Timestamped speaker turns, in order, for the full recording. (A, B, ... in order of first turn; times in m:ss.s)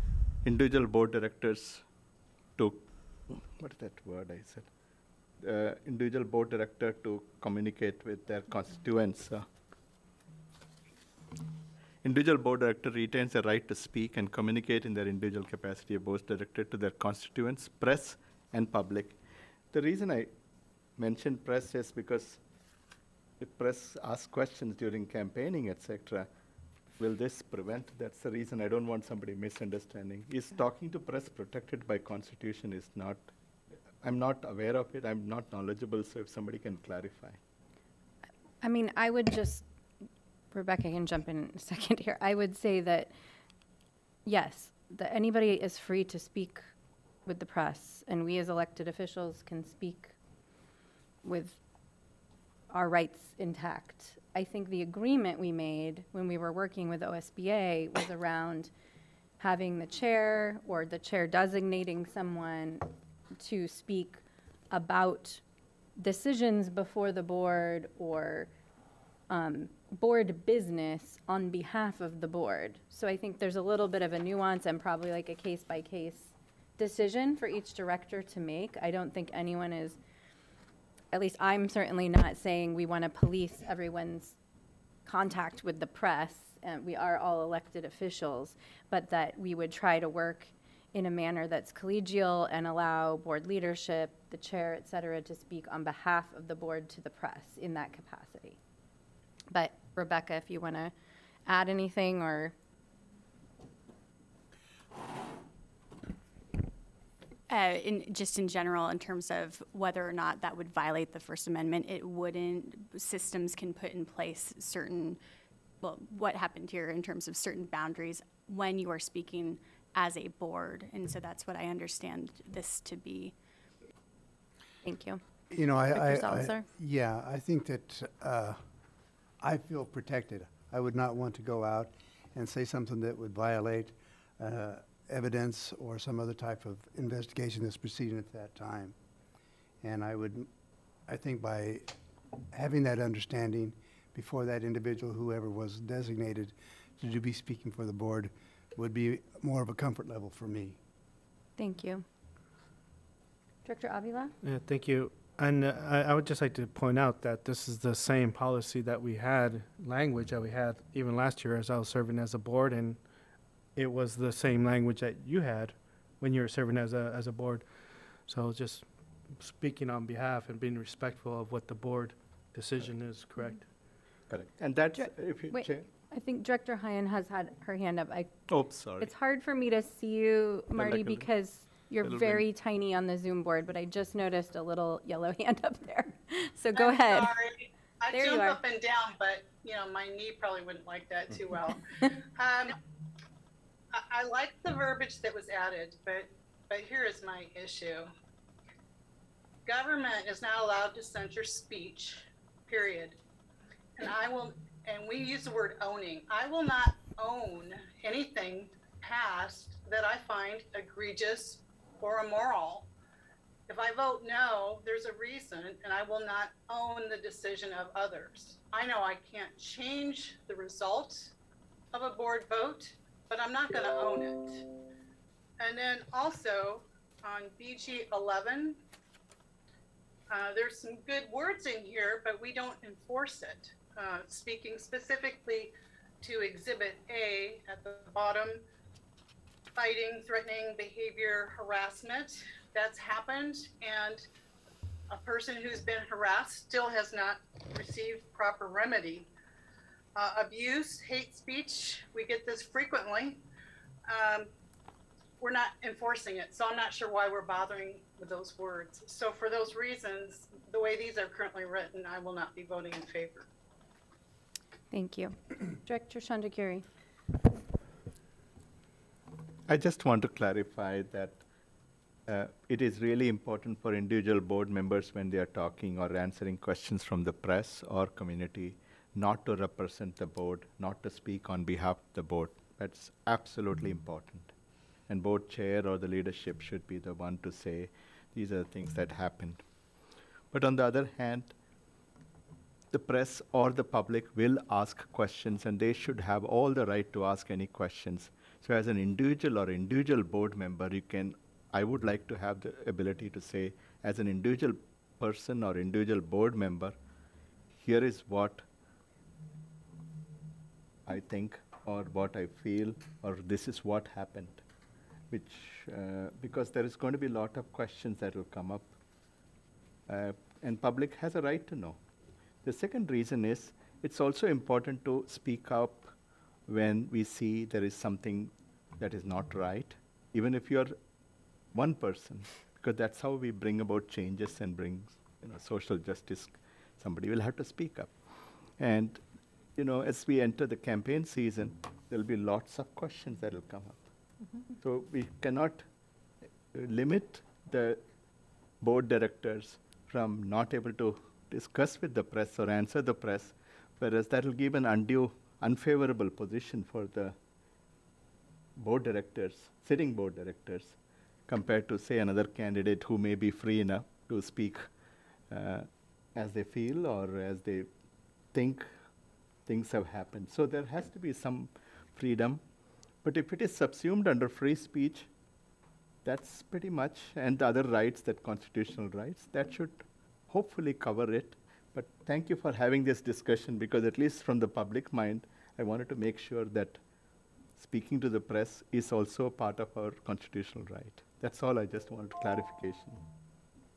0:00.4-0:01.8 A
0:02.6-0:04.7 A
0:05.4-0:09.4 A
0:12.0-0:19.2 A
0:19.7-0:20.3 A
0:21.0-0:22.4 A
0:23.4-0:26.3 A
0:26.9-0:33.3 A
0:34.0-0:37.4 A
0:38.6-0:39.6 B
0:40.5-0:43.1 B
0:44.2-0:46.7 B
0:47.2-0:50.1 B
0:51.2-0:51.6 B
0:52.7-0:58.7 B
0:59.4-1:02.8 B
1:03.4-1:05.4 B
1:06.0-1:08.5 B
1:09.3-1:20.0 B
1:21.1-1:24.4 B
1:25.0-1:38.6 B
1:39.5-1:40.9 B
1:41.4-1:42.5 B
1:47.5-1:55.2 C
1:55.8-2:03.3 C
2:04.8-2:05.2 B
2:05.5-2:08.6 D
2:05.9-2:06.7 B
2:09.4-2:18.9 D
2:19.8-2:20.5 D
2:21.1-2:21.8 D
2:22.5-2:30.8 D
2:31.6-2:32.0 B
2:33.6-2:34.3 B
2:34.4-2:43.0 E
2:43.8-2:47.6 E
2:48.3-2:53.6 E
2:54.3-2:55.9 A
2:55.0-2:58.4 B
2:58.5-2:59.1 A
2:59.0-3:07.4 B
3:00.7-3:01.3 A
3:02.0-3:02.5 A
3:06.7-3:11.8 F
3:08.1-3:08.6 B
3:12.4-3:12.7 F
3:14.0-3:18.1 F
3:19.6-3:23.2 F
3:24.0-3:32.9 F
3:33.7-3:41.3 F
3:41.9-3:44.6 F
3:45.6-3:48.8 F
3:50.3-3:58.6 F
3:59.8-4:04.2 F
4:05.1-4:09.3 F
4:10.2-4:13.4 F
4:14.1-4:14.5 F
4:15.4-4:23.4 F
4:24.9-4:26.8 B
4:29.7-4:31.4 A
4:32.3-4:44.5 A
4:45.1-4:49.6 A
4:50.5-4:51.5 A
4:52.9-5:06.9 A
5:07.7-5:08.6 A
5:11.0-5:14.6 A
5:15.3-5:18.9 A
5:20.1-5:22.0 A
5:22.6-5:26.1 A
5:26.7-5:30.9 A
5:31.7-5:39.2 A
5:39.8-5:44.0 A
5:44.8-5:45.8 A
5:46.7-5:48.0 A
5:48.8-5:57.3 A
5:58.8-6:04.9 A
6:05.5-6:07.9 A
6:08.5-6:08.9 A
6:09.6-6:12.6 A
6:13.2-6:15.3 A
6:16.2-6:27.0 A
6:27.8-6:33.2 A